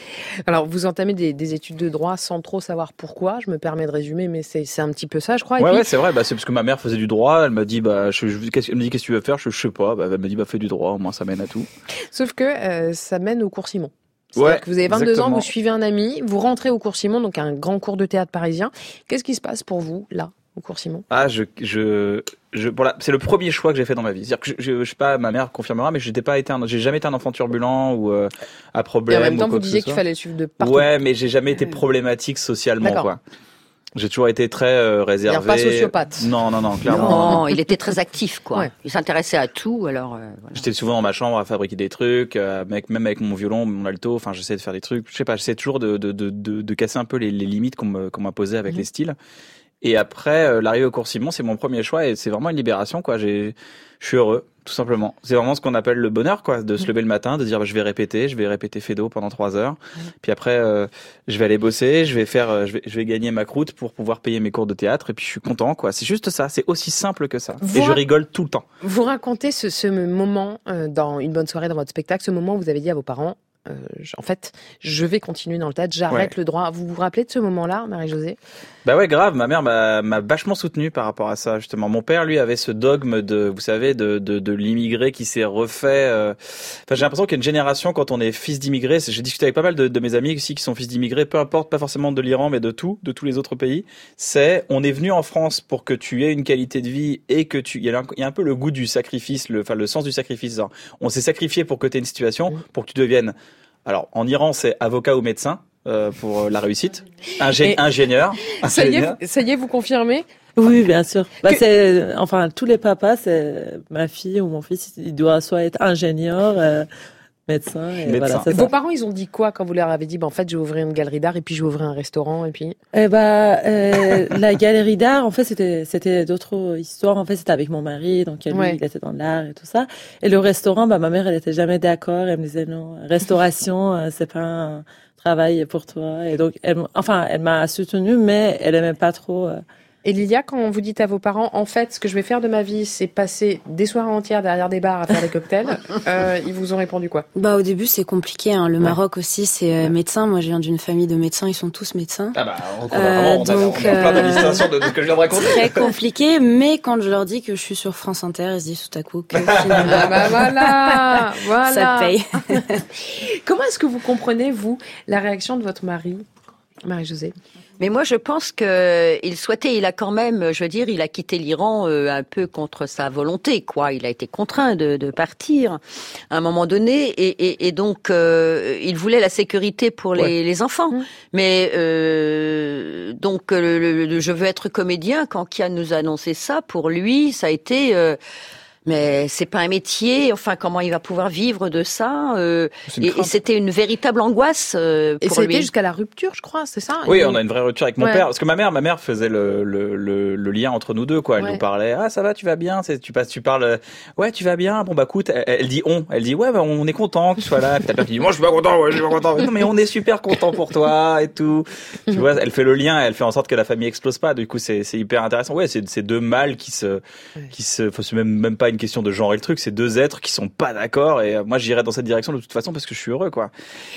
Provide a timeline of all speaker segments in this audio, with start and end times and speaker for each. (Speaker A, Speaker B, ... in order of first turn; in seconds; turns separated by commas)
Speaker A: 0.5-5.9, Speaker B: 5.6-11.7, Speaker A: 12.1-21.1, Speaker B: 14.4-15.5, Speaker B: 21.1-30.0, Speaker A: 29.1-30.9, Speaker B: 30.6-33.2, Speaker A: 32.8-33.1, Speaker B: 34.0-37.4, Speaker A: 35.3-36.3, Speaker A: 36.9-37.4, Speaker C: 37.0-40.6, Speaker B: 40.5-49.2, Speaker B: 49.8-68.6, Speaker A: 67.6-68.0, Speaker A: 68.8-78.4, Speaker B: 78.8-86.4, Speaker B: 86.9-103.3, Speaker B: 103.9-109.2, Speaker A: 108.5-110.2, Speaker D: 110.6-116.9, Speaker D: 117.5-118.7, Speaker B: 118.1-118.5, Speaker A: 118.5-122.8, Speaker D: 123.0-139.6, Speaker A: 128.5-128.8, Speaker A: 140.0-147.3, Speaker E: 147.3-152.4, Speaker B: 152.3-155.9, Speaker E: 152.9-154.7, Speaker E: 155.3-162.8, Speaker B: 159.4-160.2, Speaker A: 159.8-166.2, Speaker A: 166.8-167.3, Speaker C: 167.8-175.8, Speaker C: 176.3-188.2, Speaker C: 188.8-195.7, Speaker A: 192.9-193.2, Speaker A: 195.2-197.4, Speaker B: 197.1-223.5